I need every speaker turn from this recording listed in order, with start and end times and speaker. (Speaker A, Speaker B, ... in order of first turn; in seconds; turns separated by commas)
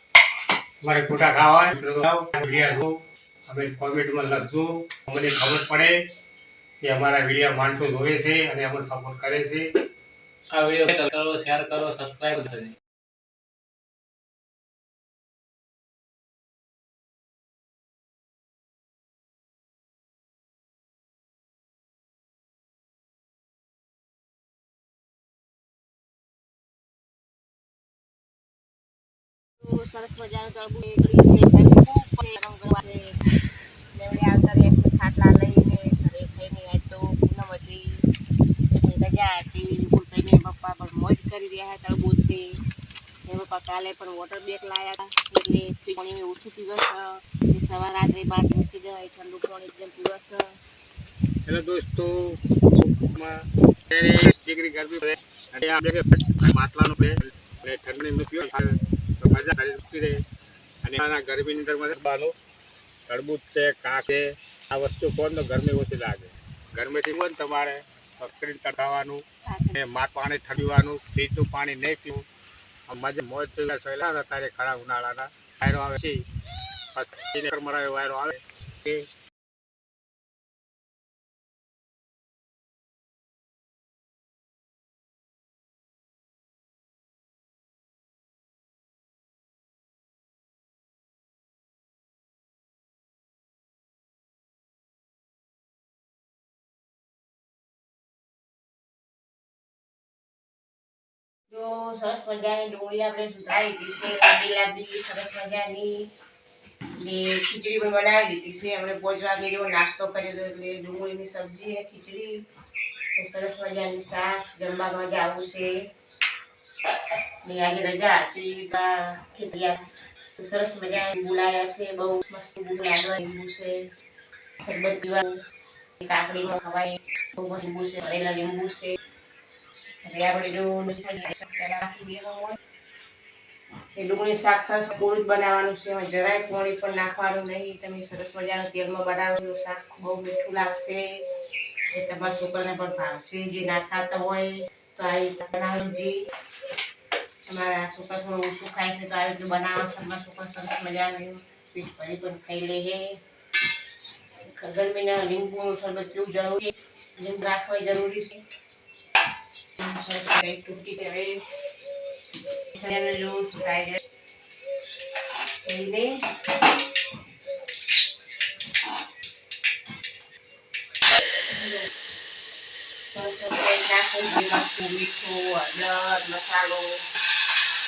Speaker A: 0.8-6.0, Speaker A: 6.8-9.7, Speaker B: 10.5-12.7, Speaker C: 29.6-33.3, Speaker C: 33.9-38.1, Speaker C: 38.7-42.5, Speaker C: 43.3-50.6, Speaker A: 51.5-60.2, Speaker A: 60.8-62.3, Speaker A: 63.1-72.2, Speaker C: 69.5-69.8, Speaker A: 72.9-76.2, Speaker A: 76.9-79.1, Speaker C: 101.5-106.1, Speaker C: 107.0-112.4, Speaker C: 113.2-115.8, Speaker C: 117.4-119.8, Speaker C: 120.4-123.8, Speaker C: 124.6-125.4, Speaker C: 126.0-129.0, Speaker C: 130.0-132.6, Speaker C: 133.9-141.2, Speaker C: 141.9-146.2, Speaker C: 147.5-153.2, Speaker C: 154.4-158.4, Speaker C: 159.8-161.4, Speaker C: 162.7-164.0, Speaker C: 165.7-166.7, Speaker C: 171.4-171.9, Speaker C: 173.1-177.0